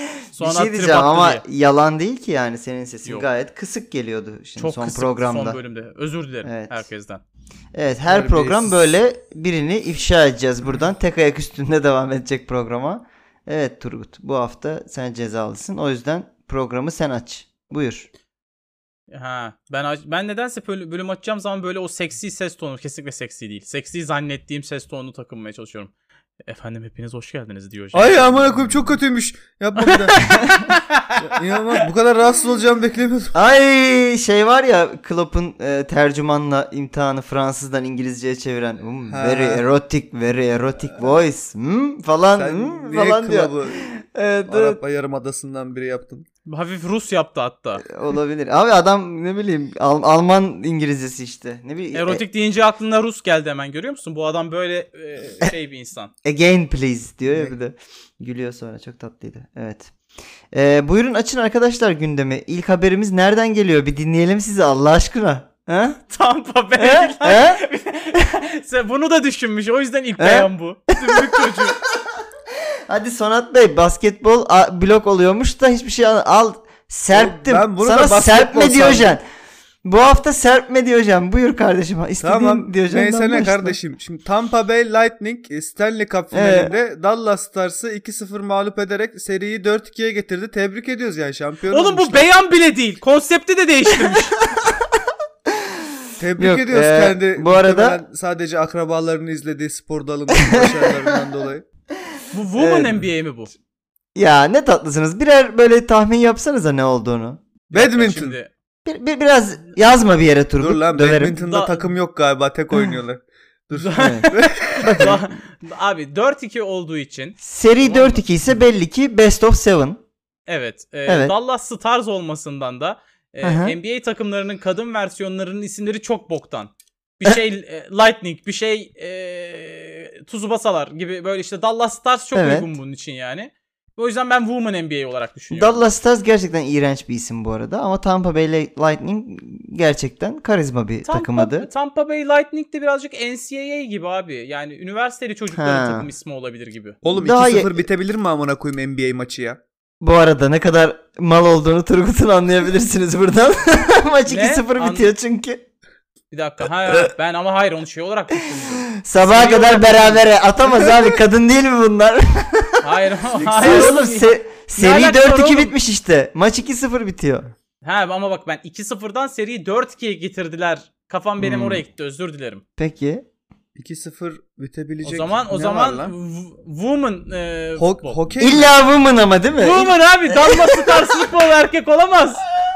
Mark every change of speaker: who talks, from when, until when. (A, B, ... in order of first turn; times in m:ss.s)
0:00.3-0:05.6 A
0:00.3-0:01.4 B
0:04.6-0:07.2 B
0:06.4-0:06.9 A
0:07.7-0:18.1 A
0:08.1-0:08.9 C
0:19.1-0:25.9 B
0:26.4-0:28.6 B
0:27.9-0:30.2 C
0:30.2-0:30.8 A
0:30.6-0:31.2 B
0:31.2-0:33.3 C
0:33.3-0:44.8 A
0:39.1-0:39.7 C
0:42.4-0:43.9 C
0:44.5-0:46.2 C
0:46.4-0:47.8 B
0:47.8-0:52.2 A
0:51.9-0:56.1 B
0:56.2-0:59.9 A
0:57.3-0:57.6 C
1:00.5-1:06.0 A
1:06.1-1:11.8 B
1:06.8-1:07.6 A
1:10.2-1:10.5 A
1:11.0-1:12.0 A
1:12.9-1:19.2 A
1:17.1-1:19.2 C
1:19.8-1:23.8 A
1:22.2-1:32.3 C
1:26.3-1:26.7 A
1:31.7-1:34.4 B
1:34.0-1:34.7 A
1:35.5-1:38.0 A
1:36.2-1:41.6 C
1:40.3-1:41.2 A
1:42.3-1:43.5 B
1:42.6-1:43.0 A
1:44.1-1:47.4 A
1:47.7-1:48.4 C
1:47.7-1:48.5 B
1:48.8-1:51.4 A
1:50.6-1:55.2 C
1:51.4-1:51.9 B
1:53.8-1:58.2 B
1:54.0-1:54.3 A
1:54.8-1:55.2 A
1:57.4-2:00.0 A
2:00.5-2:15.9 B
2:01.0-2:01.3 A
2:03.4-2:03.8 A
2:12.3-2:12.7 A
2:15.5-2:21.7 A
2:21.0-2:27.0 B
2:25.5-2:26.1 A
2:27.0-2:29.6 C
2:27.1-2:27.8 A
2:30.0-2:35.6 A
2:34.2-2:35.1 B
2:36.3-2:40.2 B
2:38.6-2:47.5 A
2:42.8-2:45.7 B
2:43.6-2:43.9 C
2:47.8-2:52.6 B
2:51.4-2:51.8 A
2:52.8-2:53.2 A
2:53.8-2:56.1 C
2:55.0-2:58.2 B
2:57.8-2:58.8 C
2:58.4-3:01.2 A
2:59.6-3:02.4 B